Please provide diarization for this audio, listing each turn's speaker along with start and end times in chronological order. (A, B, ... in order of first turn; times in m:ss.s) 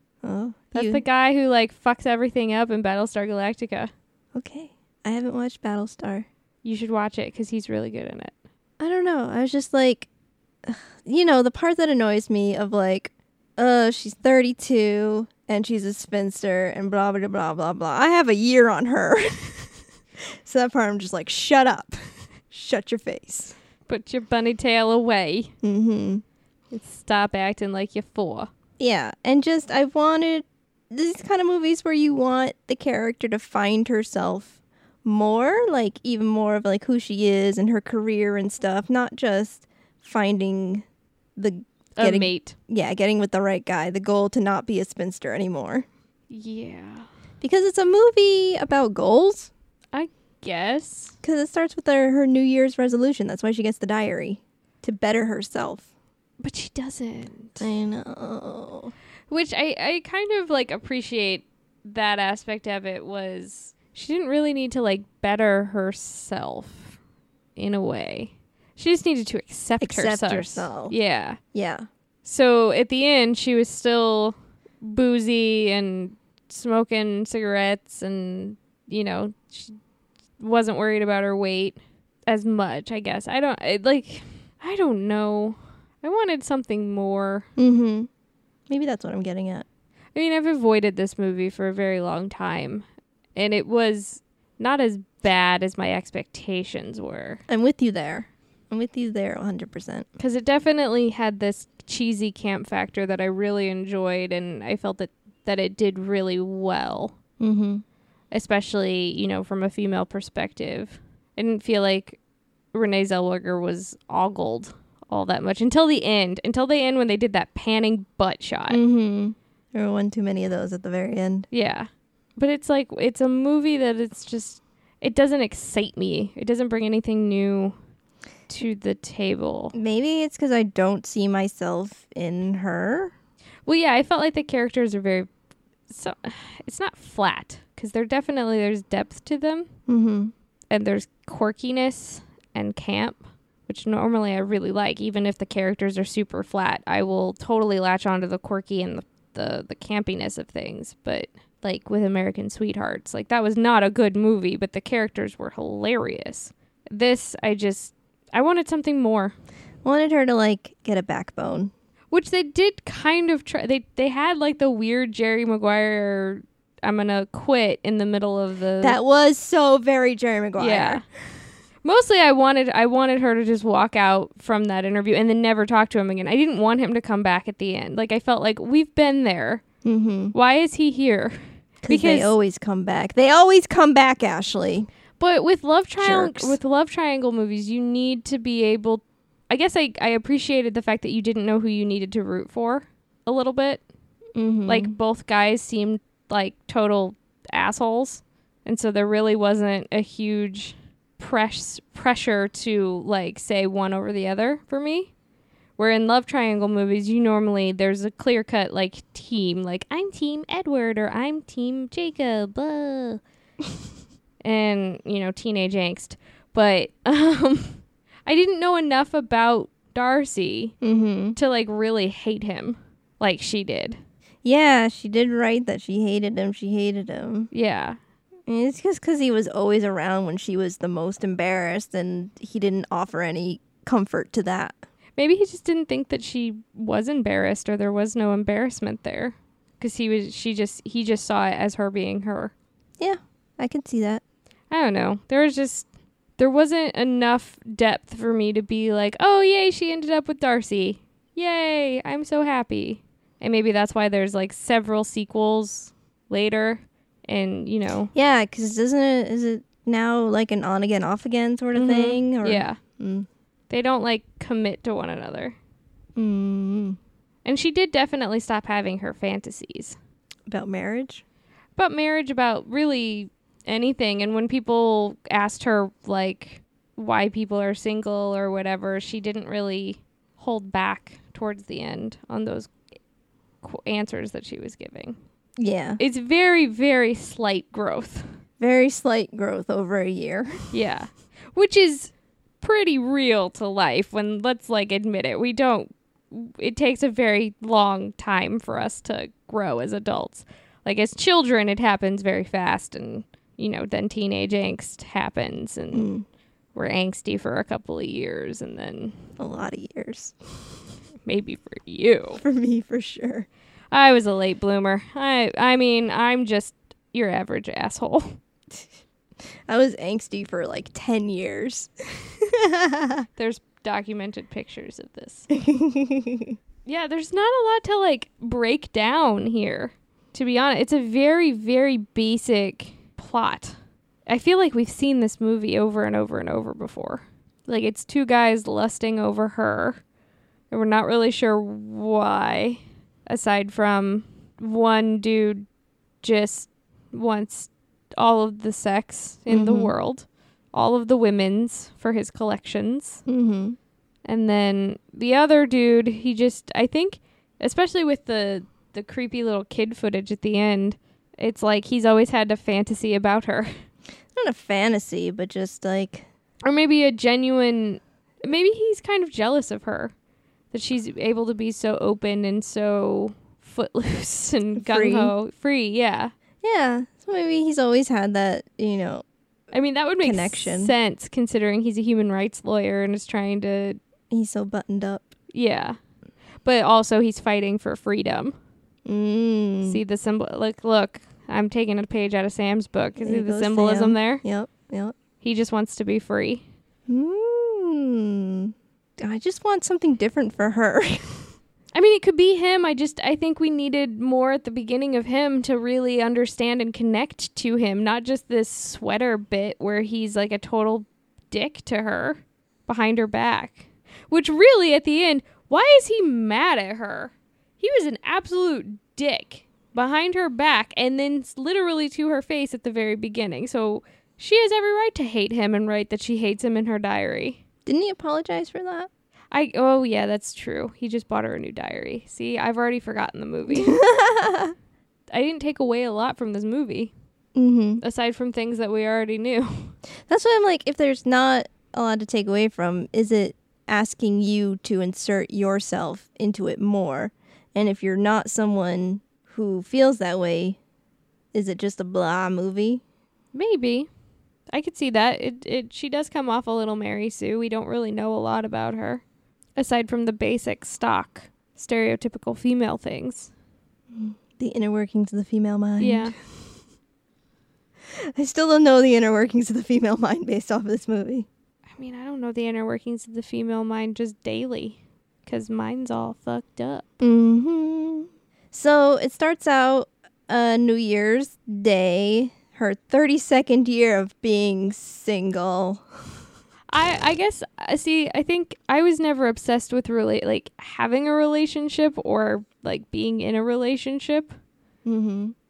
0:00.2-0:01.0 A
0:00.7-0:03.9 B
0:04.3-0:06.3 A
0:06.6-0:08.3 B
0:08.8-0:10.1 A
0:10.6-0:21.9 A
0:22.5-0:23.5 A
0:23.9-0:25.5 B
0:25.6-0:26.2 A
0:26.7-0:28.5 B
0:28.8-0:40.8 A
0:41.4-0:45.8 A
0:42.0-0:42.5 B
0:46.3-0:47.1 B
0:47.4-0:49.5 A
0:49.9-0:51.2 B
0:51.2-0:55.8 A
0:56.4-0:57.7 B
0:57.6-0:58.9 A
0:59.3-1:07.0 B
1:07.6-1:11.4 B
1:09.8-1:10.9 A
1:11.5-1:11.9 A
1:12.2-1:19.8 B
1:20.4-1:27.5 B
1:27.6-1:28.1 A
1:28.7-1:29.6 A
1:30.1-1:32.8 B
1:33.4-1:37.4 B
1:37.5-1:40.0 A
1:40.2-1:47.1 B
1:47.4-1:47.8 A
1:48.3-1:52.2 B
1:52.7-1:58.8 B
1:58.7-2:01.5 A
2:01.5-2:07.8 B
2:08.5-2:09.7 B
2:09.7-2:13.1 A
2:13.6-2:15.3 B
2:15.9-2:19.7 B
2:19.9-2:20.3 A
2:20.7-2:39.4 B
2:39.8-2:41.7 A
2:42.1-2:49.0 B
2:48.8-2:51.0 A
2:50.6-2:51.0 B
2:51.8-2:59.6 B
2:59.8-3:00.3 A
3:00.3-3:01.4 B
3:01.8-3:04.9 A
3:01.9-3:02.3 B
3:05.2-3:13.8 B
3:06.0-3:06.6 A
3:14.4-3:14.9 A
3:14.7-3:25.1 B
3:25.8-3:33.2 B
3:34.4-3:40.8 B
3:40.8-3:41.4 A
3:41.4-3:44.0 B
3:44.4-3:47.5 A
3:47.5-3:48.0 B
3:48.5-3:54.8 A
3:55.2-4:02.5 B
4:03.0-4:04.2 A
4:04.7-4:05.9 B
4:06.4-4:18.1 B
4:18.1-4:23.3 A
4:21.7-4:22.8 B
4:23.7-4:25.6 B
4:26.2-4:27.0 A
4:27.4-4:30.0 B
4:30.5-4:31.2 A
4:31.8-4:42.7 B
4:43.6-4:45.2 B
4:45.6-4:46.0 A
4:46.0-4:48.3 B
4:48.6-4:50.7 A
4:50.7-5:06.1 B
5:05.9-5:06.2 A
5:06.7-5:09.1 B
5:09.4-5:10.4 A
5:11.2-5:12.4 B
5:12.4-5:13.5 A
5:13.9-5:18.4 B
5:19.7-5:23.2 A
5:23.4-5:25.5 B
5:25.5-5:26.6 A
5:26.8-5:33.8 B
5:34.3-5:40.0 B
5:40.7-5:45.6 B
5:46.2-5:53.2 B
5:49.5-5:49.9 A
5:53.3-5:53.8 A
5:54.2-6:03.7 B
6:04.3-6:06.2 A
6:06.6-6:10.1 B
6:10.7-6:16.3 B
6:14.8-6:15.3 A
6:16.6-6:19.2 A
6:19.7-6:24.0 B
6:20.2-6:20.9 A
6:24.3-6:25.3 A
6:25.5-6:26.0 B
6:26.6-6:28.6 B
6:29.0-6:30.0 A
6:29.8-6:34.4 B
6:33.2-6:35.1 A
6:35.4-6:36.6 B
6:37.1-6:41.4 A
6:41.9-7:07.6 B
7:07.8-7:09.1 A
7:09.5-7:14.0 B
7:13.7-7:14.7 A
7:15.3-7:17.1 B
7:17.5-7:18.0 A
7:18.0-7:19.9 B
7:20.3-7:30.8 A
7:31.5-7:33.0 A
7:33.5-7:34.1 B
7:34.7-7:39.2 B
7:39.8-7:43.5 B
7:44.1-7:46.3 A
7:46.0-7:46.3 B
7:48.1-7:51.5 A
7:52.0-7:57.0 B
7:57.2-8:06.0 A
8:06.9-8:14.5 B
8:15.0-8:15.5 A